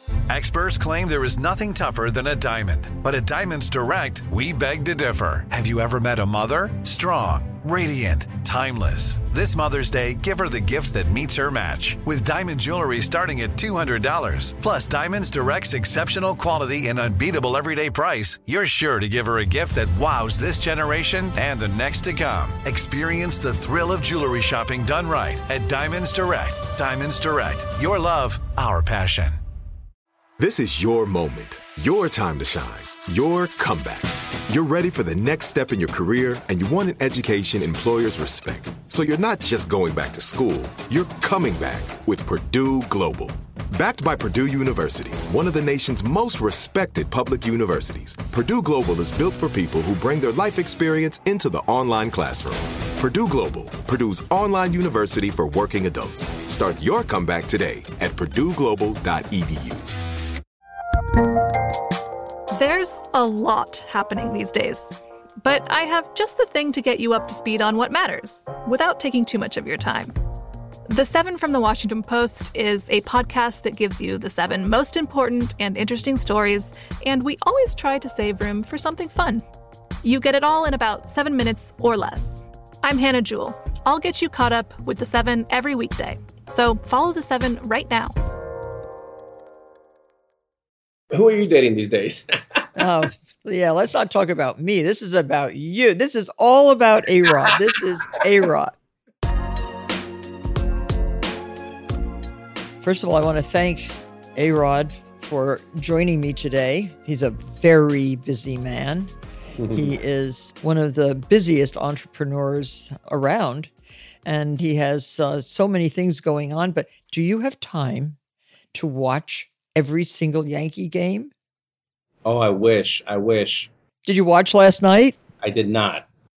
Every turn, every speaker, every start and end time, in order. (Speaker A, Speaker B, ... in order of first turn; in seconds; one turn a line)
Speaker A: 0.3-29.4
Speaker B: 30.4-59.9
Speaker C: 62.5-70.1
Speaker C: 70.9-79.5
Speaker C: 80.0-88.2
Speaker D: 91.1-92.7
Speaker E: 92.8-98.8
Speaker E: 102.8-109.1
Speaker D: 109.6-110.0
Speaker E: 109.7-113.7
Speaker E: 114.2-118.2
Speaker E: 118.7-121.3
Speaker D: 122.2-123.7
Speaker E: 124.0-125.2
Speaker D: 125.4-126.1